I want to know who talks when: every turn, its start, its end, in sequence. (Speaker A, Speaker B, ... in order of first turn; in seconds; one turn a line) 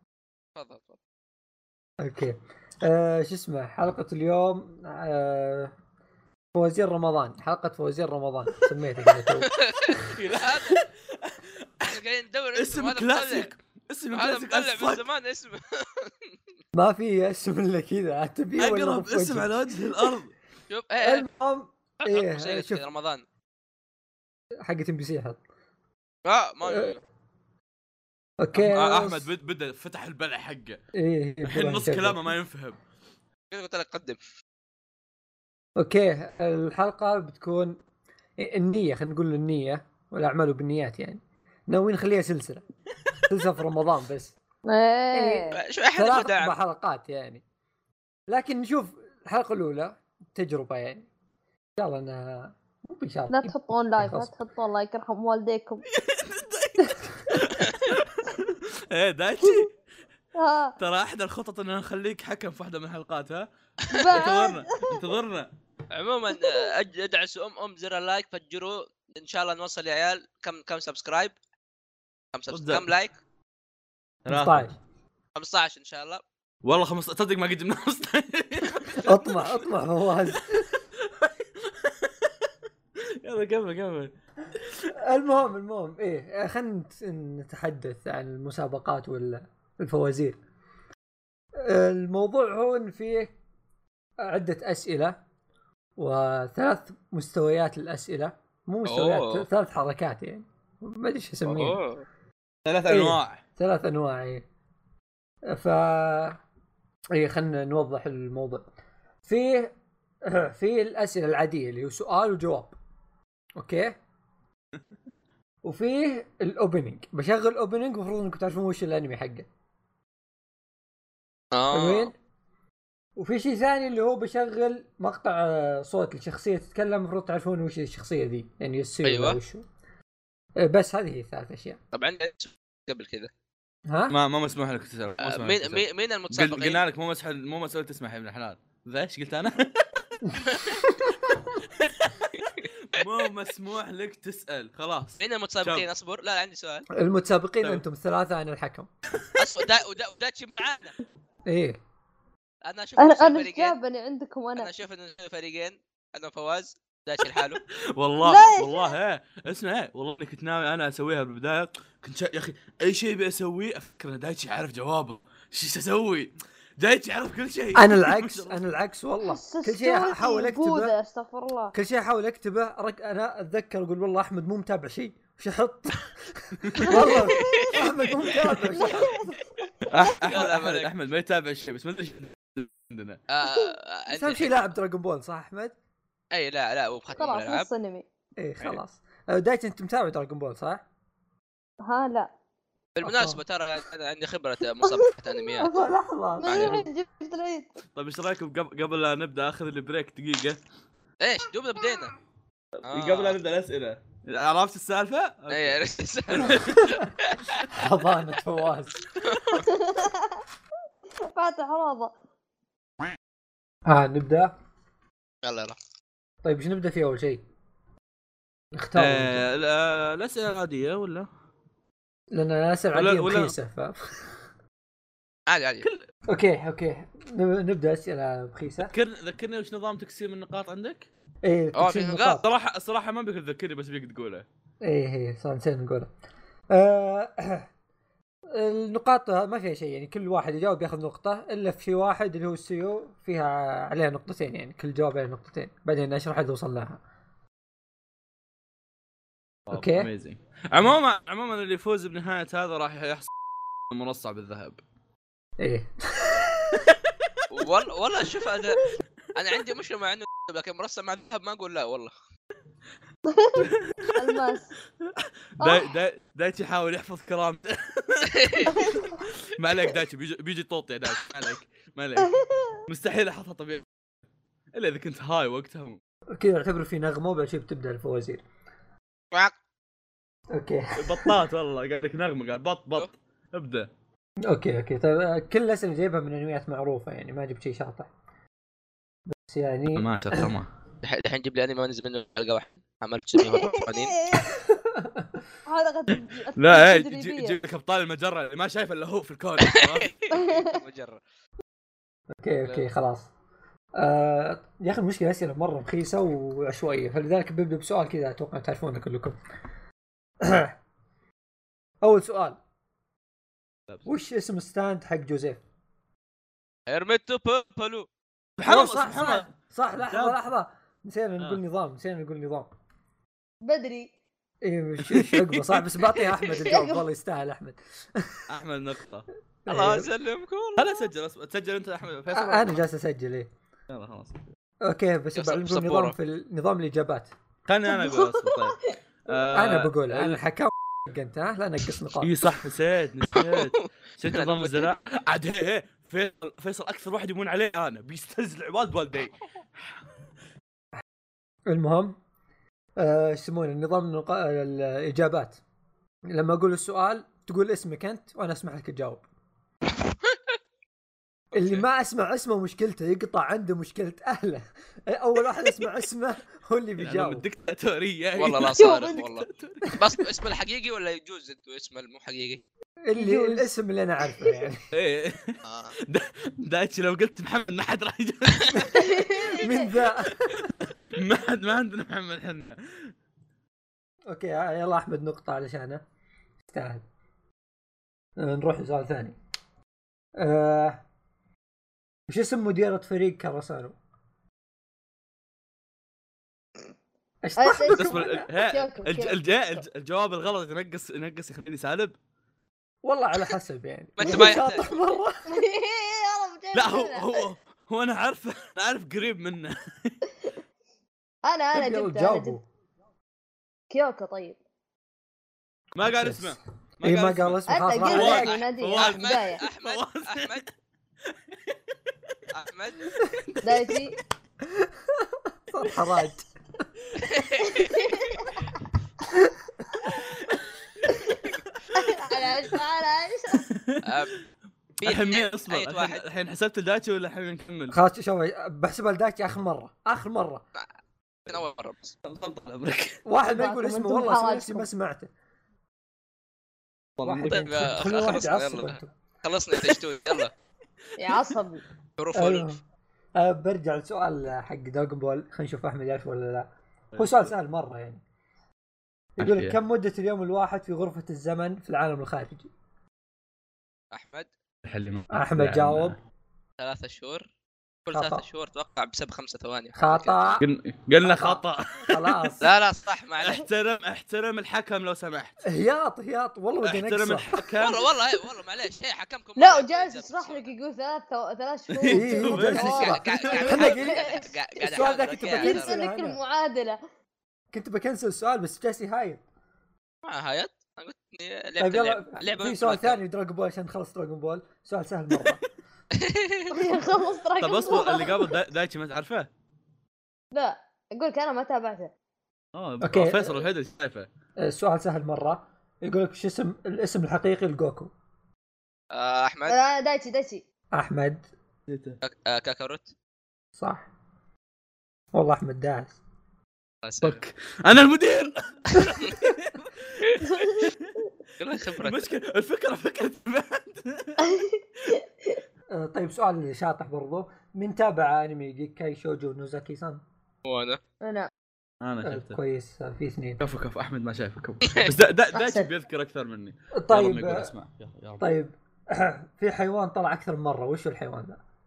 Speaker A: 0.6-1.0
Speaker B: 2.0-5.7
Speaker B: 6.5-9.5
Speaker A: 9.6-10.8
Speaker C: 10.1-11.9
Speaker A: 11.9-13.5
Speaker C: 12.6-15.0
Speaker A: 14.1-16.1
Speaker B: 16.8-19.6
Speaker C: 18.6-20.3
Speaker A: 20.7-21.3
Speaker B: 21.0-22.8
Speaker A: 22.0-23.2
Speaker B: 24.6-25.4
Speaker A: 26.2-27.0
Speaker B: 26.6-27.0
Speaker B: 28.4-29.3
Speaker C: 28.6-30.8
Speaker B: 30.9-32.3
Speaker C: 31.4-32.8
Speaker A: 33.5-34.2
Speaker B: 35.8-37.8
Speaker B: 38.4-42.6
Speaker B: 43.3-44.4
Speaker D: 44.7-45.6
Speaker B: 45.1-47.4
Speaker A: 45.5-46.6
Speaker B: 48.3-51.1
Speaker B: 51.8-54.3
Speaker D: 53.3-55.8
Speaker C: 55.9-59.7
Speaker D: 59.4-59.7
Speaker D: 60.4-60.7
Speaker C: 60.8-65.5
Speaker D: 63.9-65.0
Speaker A: 65.9-71.3
Speaker D: 66.3-66.6
Speaker A: 72.3-73.1
Speaker C: 72.5-72.8
Speaker C: 74.3-74.7
Speaker B: 74.3-74.7
Speaker A: 75.3-76.2
Speaker C: 76.6-79.0
Speaker B: 79.0-80.7
Speaker C: 81.0-82.3
Speaker C: 83.2-84.1
Speaker B: 84.9-90.4
Speaker B: 91.6-93.4
Speaker B: 94.2-95.2
Speaker B: 96.0-101.8
Speaker A: 98.9-99.5
Speaker A: 101.4-102.0
Speaker C: 102.7-103.4
Speaker B: 102.9-104.5
Speaker B: 105.5-106.4
Speaker B: 107.1-108.7
Speaker B: 109.2-112.8
Speaker B: 113.6-114.0
Speaker B: 115.6-119.5
Speaker A: 121.5-122.1
Speaker B: 121.7-122.1
Speaker B: 123.2-129.6
Speaker A: 129.0-129.4
Speaker B: 130.6-131.8
Speaker A: 131.9-133.3
Speaker B: 133.9-134.1
Speaker C: 134.1-139.8
Speaker A: 135.2-136.8
Speaker B: 140.2-141.1
Speaker C: 141.7-142.2
Speaker A: 142.4-143.0
Speaker C: 142.8-145.8
Speaker A: 145.2-146.9
Speaker B: 146.9-148.9
Speaker A: 149.4-151.0
Speaker B: 151.5-151.8
Speaker A: 152.6-153.8
Speaker D: 153.0-154.7
Speaker A: 154.6-157.6
Speaker C: 157.3-168.6
Speaker D: 158.2-158.9
Speaker B: 167.8-170.9
Speaker D: 169.2-171.7
Speaker B: 171.7-179.4
Speaker C: 176.6-176.9
Speaker D: 176.8-177.6
Speaker A: 177.3-177.9
Speaker D: 178.7-179.4
Speaker C: 179.9-183.2
Speaker A: 180.2-180.9
Speaker A: 183.3-184.6
Speaker B: 184.1-185.8
Speaker A: 186.3-187.7
Speaker D: 187.2-188.1
Speaker B: 188.4-190.8
Speaker D: 191.8-192.3
Speaker A: 193.0-195.7
Speaker B: 193.0-193.4
Speaker D: 194.8-195.7
Speaker B: 195.6-196.8
Speaker D: 196.4-197.7
Speaker A: 196.5-196.8
Speaker C: 198.0-200.6
Speaker A: 201.2-202.2
Speaker C: 202.8-207.0
Speaker A: 202.9-203.3
Speaker A: 205.5-207.7
Speaker B: 207.7-209.0
Speaker A: 209.2-209.7
Speaker D: 209.6-210.4
Speaker D: 211.3-212.1
Speaker B: 213.9-214.5
Speaker A: 215.4-215.8
Speaker B: 216.4-217.4
Speaker B: 218.7-219.5
Speaker C: 219.0-221.3
Speaker B: 222.3-224.3
Speaker C: 222.9-223.5
Speaker A: 225.5-225.9
Speaker B: 226.3-228.9
Speaker C: 228.9-231.1
Speaker B: 231.4-232.4
Speaker A: 231.8-232.4
Speaker C: 232.4-234.5
Speaker B: 234.8-236.1
Speaker B: 236.7-237.7
Speaker B: 238.5-247.0
Speaker C: 249.7-253.3
Speaker B: 249.7-250.1
Speaker C: 253.9-254.8
Speaker B: 255.6-256.8
Speaker A: 257.5-258.8
Speaker A: 259.4-262.1
Speaker D: 263.3-264.7
Speaker C: 263.6-264.1
Speaker C: 265.1-272.3
Speaker D: 265.6-265.9
Speaker A: 268.3-268.8
Speaker D: 268.7-269.1
Speaker C: 272.9-273.9
Speaker C: 274.8-276.0
Speaker B: 276.3-278.4
Speaker B: 280.5-281.4
Speaker C: 281.0-283.9
Speaker B: 284.4-288.1
Speaker B: 289.3-290.5
Speaker C: 289.9-290.7
Speaker A: 291.0-294.1
Speaker D: 293.4-294.5
Speaker B: 294.5-295.4
Speaker D: 295.7-297.6
Speaker C: 296.6-300.1
Speaker A: 299.6-301.2
Speaker D: 300.3-300.7
Speaker B: 302.3-303.3
Speaker B: 304.0-309.4
Speaker B: 310.4-310.8
Speaker B: 312.0-312.6
Speaker B: 314.1-315.6
Speaker A: 316.9-318.1
Speaker C: 318.6-319.5
Speaker B: 318.6-322.7
Speaker C: 320.1-320.4
Speaker D: 323.6-324.1
Speaker B: 324.6-328.4
Speaker C: 325.1-325.8
Speaker D: 326.6-327.0
Speaker C: 328.5-329.3
Speaker B: 329.7-330.1
Speaker A: 329.7-330.9
Speaker C: 330.8-332.8
Speaker B: 332.3-333.5
Speaker C: 333.9-334.4
Speaker B: 334.8-337.3
Speaker A: 335.4-336.1
Speaker C: 337.7-340.4
Speaker D: 337.9-338.9
Speaker B: 339.5-342.4
Speaker C: 342.2-349.3
Speaker A: 343.4-344.9
Speaker B: 351.7-352.2
Speaker B: 353.0-355.6
Speaker B: 356.3-359.3
Speaker A: 361.5-361.9
Speaker B: 361.5-367.4
Speaker C: 367.0-369.9
Speaker A: 368.4-372.6
Speaker D: 368.8-369.2
Speaker B: 373.0-374.9
Speaker D: 373.1-373.7
Speaker C: 374.9-379.0
Speaker A: 375.6-375.9
Speaker D: 378.9-379.9
Speaker B: 379.6-380.6
Speaker C: 381.2-383.1
Speaker B: 384.3-386.0
Speaker B: 386.7-387.0
Speaker B: 388.4-389.4
Speaker B: 390.4-391.0
Speaker B: 392.3-394.0
Speaker B: 397.4-398.5
Speaker D: 397.6-399.8
Speaker C: 397.9-402.2
Speaker B: 403.0-405.4
Speaker A: 404.2-404.9
Speaker D: 404.2-404.5
Speaker D: 405.5-407.4
Speaker C: 406.7-410.2
Speaker D: 411.4-412.6
Speaker B: 411.7-412.6
Speaker D: 413.9-414.6
Speaker C: 416.0-420.7
Speaker B: 416.1-418.6
Speaker D: 417.7-419.6
Speaker A: 418.3-420.6
Speaker A: 422.5-423.0
Speaker D: 423.6-424.2
Speaker B: 424.7-426.5
Speaker A: 427.2-428.1
Speaker D: 427.6-428.5
Speaker C: 430.1-430.7
Speaker D: 431.1-433.6
Speaker C: 433.6-434.1
Speaker A: 434.0-434.3
Speaker A: 435.0-436.2
Speaker C: 435.0-438.0
Speaker B: 437.9-440.6
Speaker A: 441.5-442.1
Speaker C: 442.2-443.2
Speaker B: 443.2-445.3
Speaker D: 443.5-444.9
Speaker C: 447.2-447.9
Speaker B: 447.2-449.1
Speaker A: 447.5-450.5
Speaker D: 451.2-451.8
Speaker C: 451.2-451.5
Speaker A: 452.2-452.7
Speaker B: 452.3-452.8
Speaker B: 453.4-458.2
Speaker C: 457.1-457.5
Speaker B: 459.4-462.7
Speaker C: 459.4-459.8
Speaker A: 464.1-464.5
Speaker C: 464.9-466.2
Speaker B: 465.3-466.2
Speaker A: 466.8-467.5
Speaker A: 468.1-470.6
Speaker B: 468.1-468.4
Speaker B: 470.0-470.6
Speaker C: 470.6-472.5
Speaker B: 471.2-472.7
Speaker A: 472.6-473.6
Speaker C: 473.4-475.6
Speaker B: 475.7-477.5
Speaker C: 476.8-478.0
Speaker A: 477.8-480.7
Speaker D: 479.6-484.5
Speaker C: 481.9-483.4
Speaker B: 482.1-484.3
Speaker A: 482.9-486.0
Speaker B: 484.8-486.4
Speaker D: 485.5-487.0
Speaker B: 487.7-489.4
Speaker A: 490.2-493.2
Speaker B: 491.8-495.6
Speaker A: 496.1-496.8
Speaker D: 496.7-498.5
Speaker C: 497.6-499.5
Speaker D: 500.5-502.1
Speaker C: 502.8-504.3
Speaker B: 503.0-503.7
Speaker B: 504.6-508.1
Speaker A: 509.1-509.8
Speaker D: 509.7-510.6
Speaker B: 510.9-511.5
Speaker C: 511.9-512.2
Speaker A: 512.2-513.1
Speaker B: 513.8-514.1
Speaker B: 515.3-516.2
Speaker A: 517.0-517.4
Speaker C: 517.2-521.1
Speaker D: 520.4-520.9
Speaker A: 521.6-522.3
Speaker C: 522.0-524.4
Speaker D: 524.5-525.6
Speaker B: 525.9-530.2
Speaker A: 530.6-531.0
Speaker D: 531.2-531.5
Speaker C: 532.0-532.6
Speaker B: 532.2-533.6
Speaker C: 533.6-538.5
Speaker A: 534.9-535.1
Speaker D: 535.5-535.9
Speaker B: 536.9-537.7
Speaker B: 538.4-541.6